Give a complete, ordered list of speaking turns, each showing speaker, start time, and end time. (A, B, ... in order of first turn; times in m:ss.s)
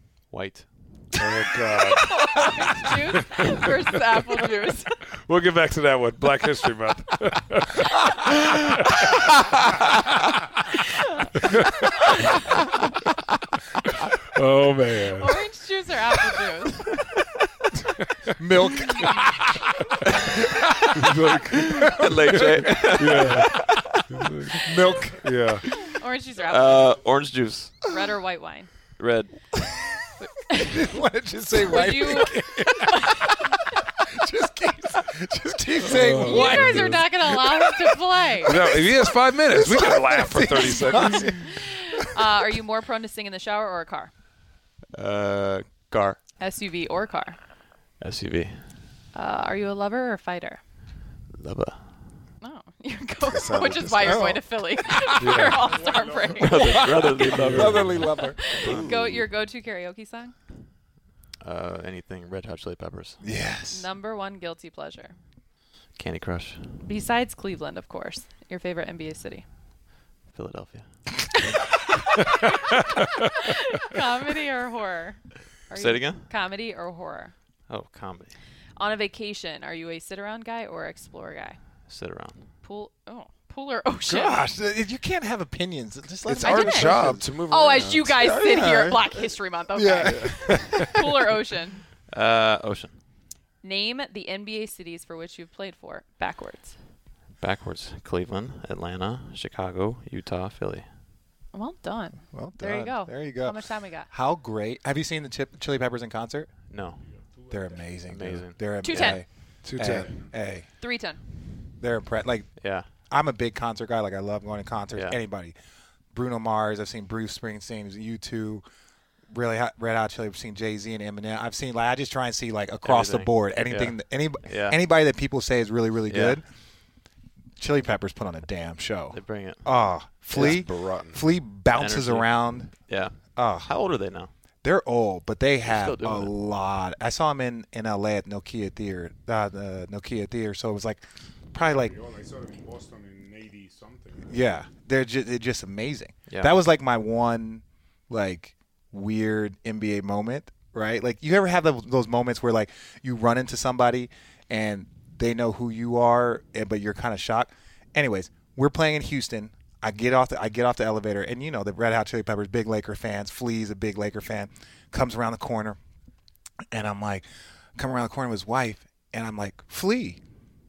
0:00.3-0:00.7 A
0:01.2-0:02.3 B
0:02.0-0:04.9 C
0:03.0-0:03.7 B
0:05.2-0:09.1 B
0:14.3-0:15.4 B
0:15.2-0:17.0 C
0:18.4-0:19.4 D
0:21.0-0:23.5 B
0:21.6-0:23.9 A
0:24.1-0:25.6 B
0:24.6-0:25.4 D
0:25.9-0:27.0 C
0:26.4-0:27.9 A
0:27.9-0:28.7 C
0:29.0-0:29.6 A
0:30.2-0:30.9 C
0:30.7-0:32.9 D
0:30.8-0:32.3 B
0:31.6-0:33.2 C
0:34.0-0:37.7 D
0:35.8-0:37.1 B
0:36.2-0:38.6 C
0:38.4-0:41.5 B
0:39.6-0:41.2 D
0:40.4-0:44.1 C
0:44.9-0:46.2 A
0:46.4-0:47.4 C
0:48.0-0:48.8 A
0:49.1-0:50.6 C
0:51.4-0:52.0 A
0:52.4-0:56.9 C
0:53.3-0:54.4 B
0:54.0-0:54.4 D
0:55.2-0:55.6 B
0:55.7-0:56.4 E
0:56.4-0:59.1 A
0:57.3-0:59.0 D
0:57.4-0:58.0 B
0:58.0-1:00.4 C
1:01.4-1:03.2 A
1:03.2-1:03.9 D
1:03.7-1:05.2 C
1:06.0-1:06.9 A
1:06.8-1:09.4 C
1:10.3-1:11.0 A
1:13.4-1:17.3 C
1:15.7-1:16.3 A
1:17.7-1:18.4 A
1:18.8-1:21.6 C
1:21.9-1:22.5 A
1:22.6-1:24.5 C
1:24.1-1:27.2 D
1:26.3-1:28.2 B
1:26.4-1:31.8 C
1:28.0-1:29.2 D
1:29.8-1:30.8 D
1:29.9-1:31.0 B
1:32.1-1:33.0 A
1:33.6-1:36.8 C
1:37.4-1:40.9 A
1:41.5-1:44.1 C
1:42.3-1:46.5 D
1:46.7-1:47.0 A
1:47.0-1:48.0 E
1:47.5-1:50.8 D
1:48.0-1:49.1 A
1:48.8-1:49.2 C
1:49.6-1:50.2 B
1:50.0-1:50.4 E
1:50.8-1:51.2 C
1:51.8-1:55.6 D
1:52.6-1:52.9 A
1:54.9-1:55.2 A
1:56.1-1:58.6 D
1:59.3-2:06.5 D
2:02.8-2:04.8 A
2:06.1-2:06.4 A
2:07.6-2:12.8 D
2:09.1-2:10.6 A
2:10.3-2:11.3 B
2:11.7-2:14.3 A
2:13.4-2:13.8 D
2:14.6-2:21.0 D
2:15.6-2:16.4 A
2:21.5-2:22.0 D
2:21.6-2:24.5 E
2:24.3-2:45.8 D
2:26.3-2:26.6 A
2:46.7-2:50.2 D